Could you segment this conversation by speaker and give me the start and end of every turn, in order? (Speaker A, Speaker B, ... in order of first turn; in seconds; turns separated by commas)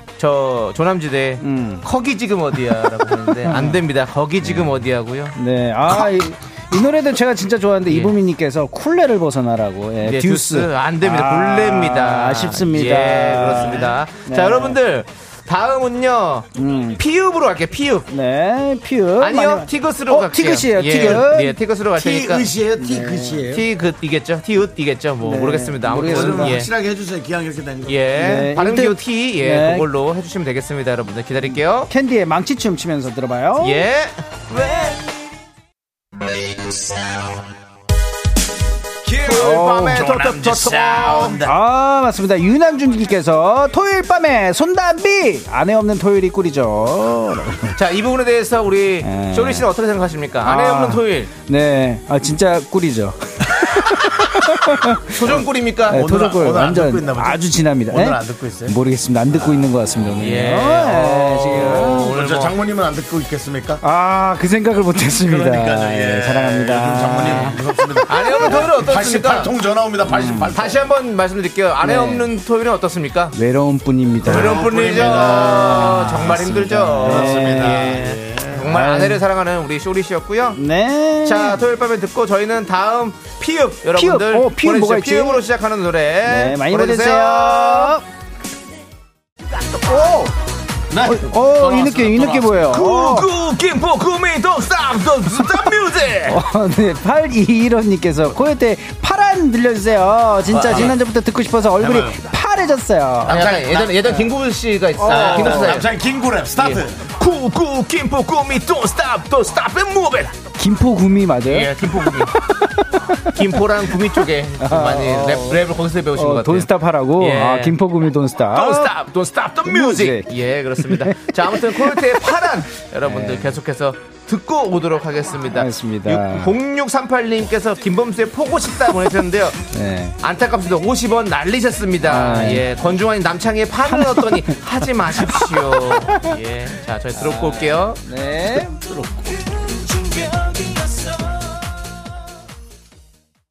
Speaker A: 0.2-5.4, Speaker B: 1.4-1.8, Speaker B: 3.4-3.8, Speaker B: 5.3-14.8, Speaker A: 7.9-8.1, Speaker A: 10.0-18.1, Speaker B: 16.5-17.0, Speaker B: 18.1-21.6, Speaker A: 19.2-22.5, Speaker C: 21.9-23.7, Speaker B: 22.8-23.5, Speaker A: 23.5-26.7, Speaker B: 25.2-26.6, Speaker C: 26.0-28.4, Speaker A: 27.9-31.9, Speaker B: 28.1-29.9, Speaker B: 31.9-33.8, Speaker A: 33.6-35.0, Speaker C: 36.6-37.1, Speaker A: 39.0-41.4, Speaker B: 39.3-40.0, Speaker C: 39.6-41.6, Speaker B: 41.4-47.8, Speaker A: 47.7-51.3, Speaker B: 49.0-49.7, Speaker B: 50.4-62.1, Speaker A: 55.1-56.0, Speaker C: 55.9-58.8, Speaker C: 59.3-59.7, Speaker A: 60.2-62.5, Speaker C: 61.9-63.8, Speaker B: 63.8-68.6, Speaker C: 65.2-70.9, Speaker A: 67.3-67.5, Speaker A: 68.1-69.5, Speaker B: 70.0-70.5, Speaker A: 70.5-73.4, Speaker B: 71.8-72.3, Speaker B: 73.3-78.1, Speaker C: 74.2-76.3, Speaker A: 74.2-80.6, Speaker C: 77.0-78.7, Speaker B: 78.6-79.2, Speaker B: 80.5-81.6, Speaker A: 81.2-88.0, Speaker B: 83.9-85.5, Speaker B: 86.2-88.0, Speaker B: 89.7-90.3, Speaker C: 90.9-92.8, Speaker B: 91.0-93.3, Speaker A: 92.7-96.5, Speaker B: 96.3-103.4, Speaker A: 100.5-101.0, Speaker C: 101.8-102.2, Speaker C: 103.2-104.1, Speaker A: 103.3-105.9, Speaker B: 104.0-104.3, Speaker B: 105.0-105.8, Speaker C: 105.0-107.0, Speaker A: 106.6-110.4, Speaker B: 110.5-118.9, Speaker A: 111.5-112.4, Speaker A: 113.3-117.8, Speaker A: 118.5-129.6, Speaker B: 119.6-122.4, Speaker B: 123.0-123.5, Speaker B: 125.5-126.5, Speaker B: 129.6-130.2, Speaker A: 130.2-138.0, Speaker B: 132.0-132.7, Speaker B: 133.9-134.5, Speaker B: 137.5-138.8, Speaker C: 138.7-139.4, Speaker B: 139.9-141.1